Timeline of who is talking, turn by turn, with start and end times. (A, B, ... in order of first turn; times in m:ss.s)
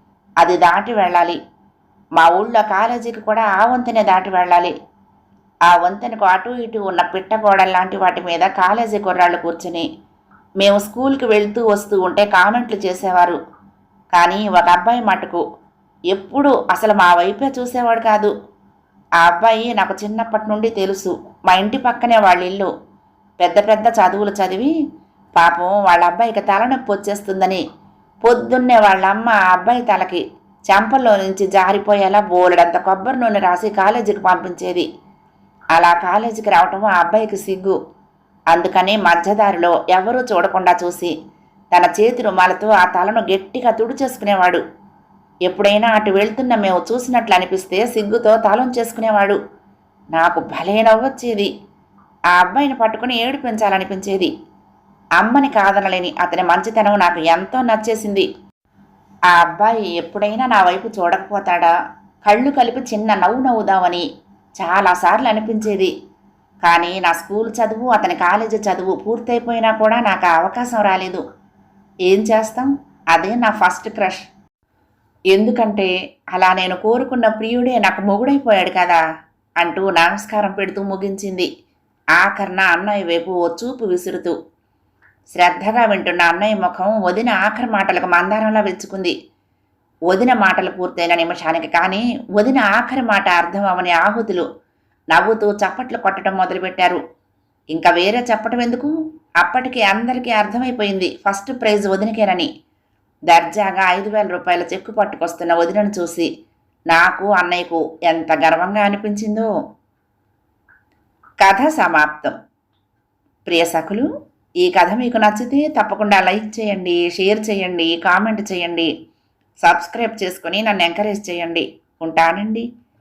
0:00.4-0:01.4 A
0:02.2-0:04.7 A
0:05.7-0:09.9 A
0:10.6-0:13.4 A
0:14.1-0:15.4 A
0:16.1-0:18.3 A
0:19.2-0:22.7 A
0:23.4-0:24.7 A
0:25.4-0:27.6 A
0:28.2-0:34.9 A
0:35.7-0:37.8 A
0:38.5-0:41.1 A
0:41.7-0:44.6 A
0:45.5-0:49.4 A
0:50.1-0:51.5 A
0:52.3-0:54.3 A
0:55.2-0:58.3 A
0:59.3-1:01.7 A
1:02.2-1:04.0 A
1:04.6-1:05.9 A
1:06.6-1:11.2 A
1:12.1-1:14.2 A
1:15.3-1:19.0 A
1:19.6-1:21.5 A
1:22.2-1:24.4 A
1:25.3-1:29.1 A
1:30.1-1:34.4 A
1:35.1-1:37.0 A
1:37.7-1:42.5 A
1:43.3-1:46.3 A
1:46.9-1:49.5 A
1:51.4-1:52.4 A
1:53.4-1:54.1 A
1:54.6-1:58.9 A
1:59.6-2:02.6 A